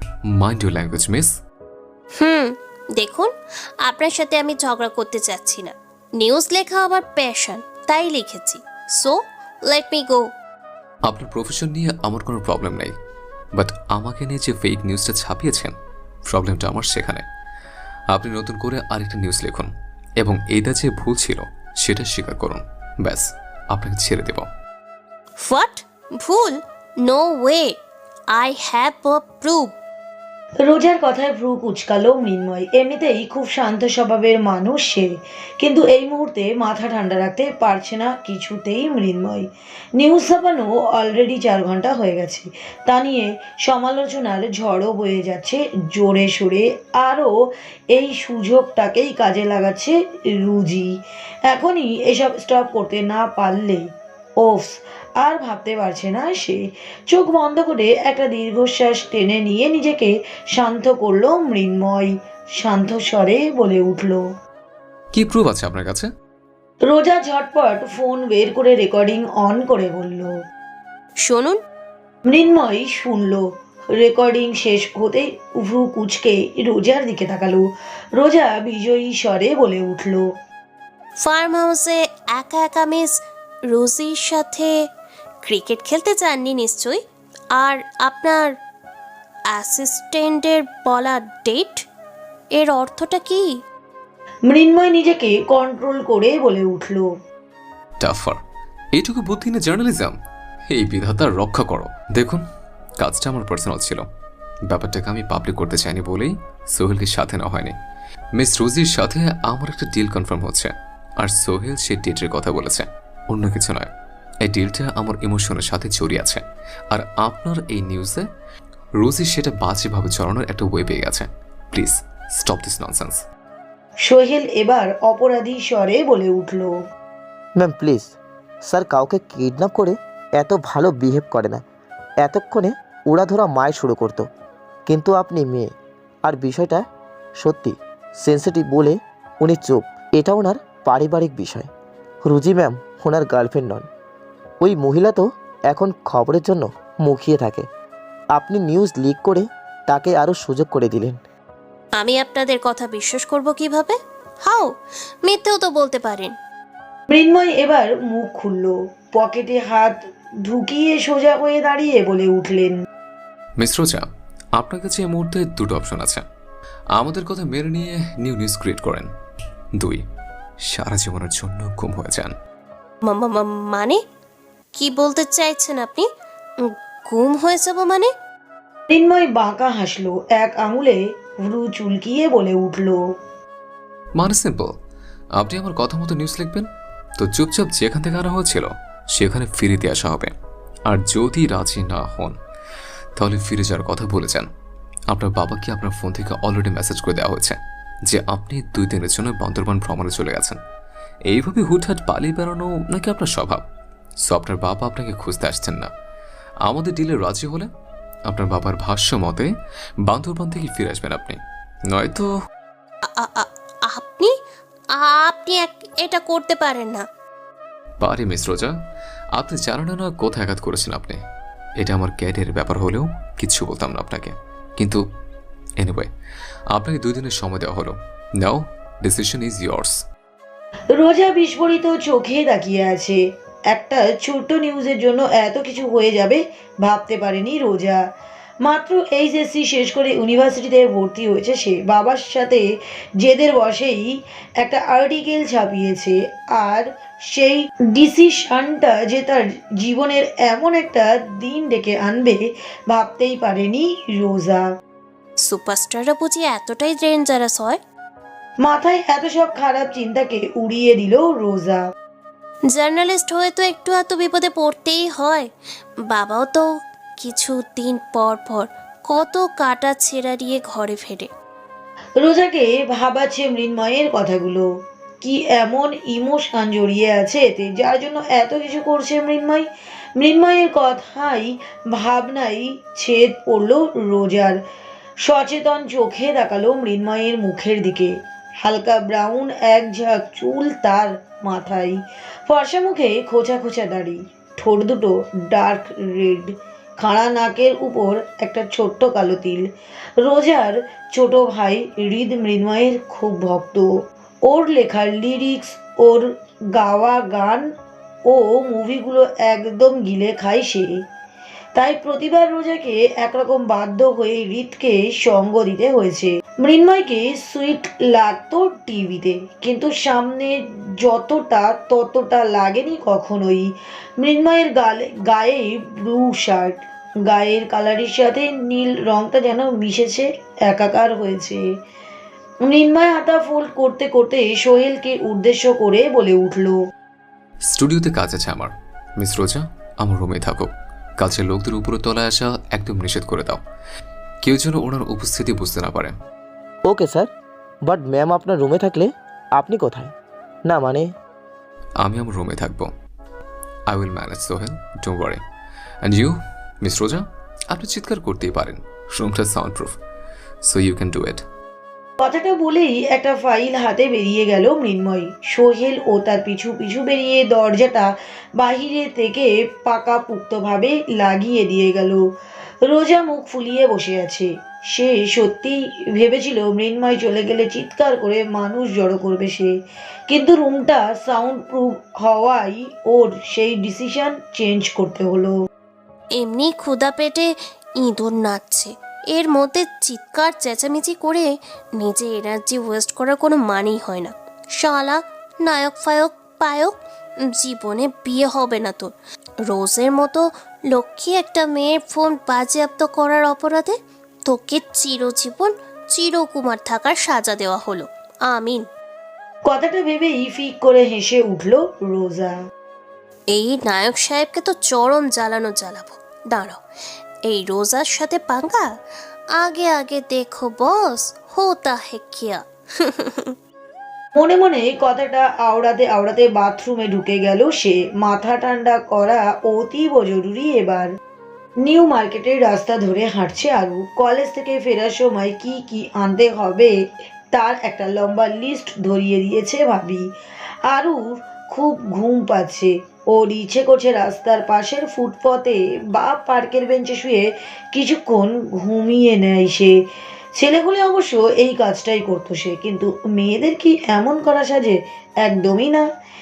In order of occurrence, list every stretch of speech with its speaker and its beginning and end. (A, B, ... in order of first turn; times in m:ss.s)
0:00.3-0:01.3 A
0:02.2-0:03.3 B
0:03.8-0:10.2 B
0:11.0-0:12.9 A
0:13.6-0:15.7 A
0:16.3-0:17.2 A
0:18.1-0:24.5 A
0:25.4-0:27.7 B
0:28.3-0:29.7 B
0:30.6-0:35.1 C
0:35.6-0:47.3 C
0:47.9-0:50.9 C
0:51.4-1:04.2 C
1:05.1-1:06.1 A
1:06.8-1:10.4 C
1:11.2-1:11.6 B
1:12.3-1:20.2 C
1:21.2-1:24.7 B
1:25.4-1:27.0 B
1:27.6-1:28.5 B
1:29.5-1:31.8 B
1:32.6-1:33.5 B
1:34.5-1:37.1 C
1:38.0-1:38.4 A
1:38.9-1:40.2 A
1:40.7-1:42.4 A
1:43.0-1:44.0 A
1:44.7-1:47.7 A
1:48.4-1:53.9 A
1:54.4-1:58.2 A
1:59.0-2:03.2 A
2:04.0-2:06.7 C
2:07.6-2:08.1 D
2:08.6-2:11.6 D
2:12.2-2:14.3 D
2:14.9-2:15.7 D
2:16.2-2:16.8 D
2:17.4-2:21.7 D
2:22.2-2:23.8 D
2:24.6-2:27.7 D
2:28.3-2:31.2 D
2:32.0-2:34.7 B
2:35.2-2:36.3 B
2:37.1-2:42.8 C
2:43.6-2:46.2 A
2:47.0-2:49.1 A
2:50.7-2:52.3 A
2:53.0-2:54.0 B
2:54.8-2:56.1 B
2:56.6-2:58.1 B
2:58.9-3:03.0 C
3:04.2-3:04.7 A
3:05.4-3:10.3 A
3:10.9-3:12.4 A
3:13.2-3:14.5 A
3:15.1-3:20.6 A
3:21.3-3:23.6 A
3:24.2-3:25.9 A
3:26.6-3:27.7 A
3:28.3-3:29.5 A
3:30.1-3:31.4 A
3:31.9-3:32.3 A
3:33.0-3:34.3 B
3:35.0-3:37.0 B
3:38.0-3:38.7 A
3:39.4-3:41.2 A
3:41.8-3:45.0 A
3:45.8-3:46.1 A
3:46.7-3:50.0 A
3:50.9-3:53.2 C
3:53.7-3:58.0 C
3:58.6-4:02.6 C
4:03.2-4:14.7 C
4:15.4-4:17.8 B
4:18.6-4:21.8 C
4:22.7-4:25.5 B
4:26.1-4:26.6 B
4:27.2-4:31.3 B
4:32.2-4:34.6 C
4:35.2-4:44.6 C
4:45.2-4:59.7 C
5:00.2-5:03.9 C
5:04.4-5:07.7 C
5:08.3-5:10.9 C
5:11.7-5:31.6 C
5:32.6-5:36.8 C
5:37.7-5:43.6 A
5:44.4-5:46.1 A
5:46.9-5:47.3 D
5:47.8-5:50.1 D
5:50.7-5:51.1 D
5:52.0-5:52.9 A
5:53.9-5:55.4 A
5:56.0-6:00.0 A
6:00.6-6:01.4 A
6:02.2-6:12.2 C
6:12.8-6:19.7 C
6:20.3-6:25.5 C
6:26.4-6:27.5 B
6:28.0-6:36.9 B
6:37.5-6:39.1 B
6:39.6-6:44.0 B
6:44.5-6:48.8 B
6:49.7-6:52.6 C
6:53.5-6:56.8 B
6:57.5-6:58.9 B
6:59.6-7:03.5 B
7:04.4-7:11.1 C
7:11.8-7:16.9 C
7:17.5-7:20.2 C
7:20.9-7:29.9 C
7:30.6-7:36.0 C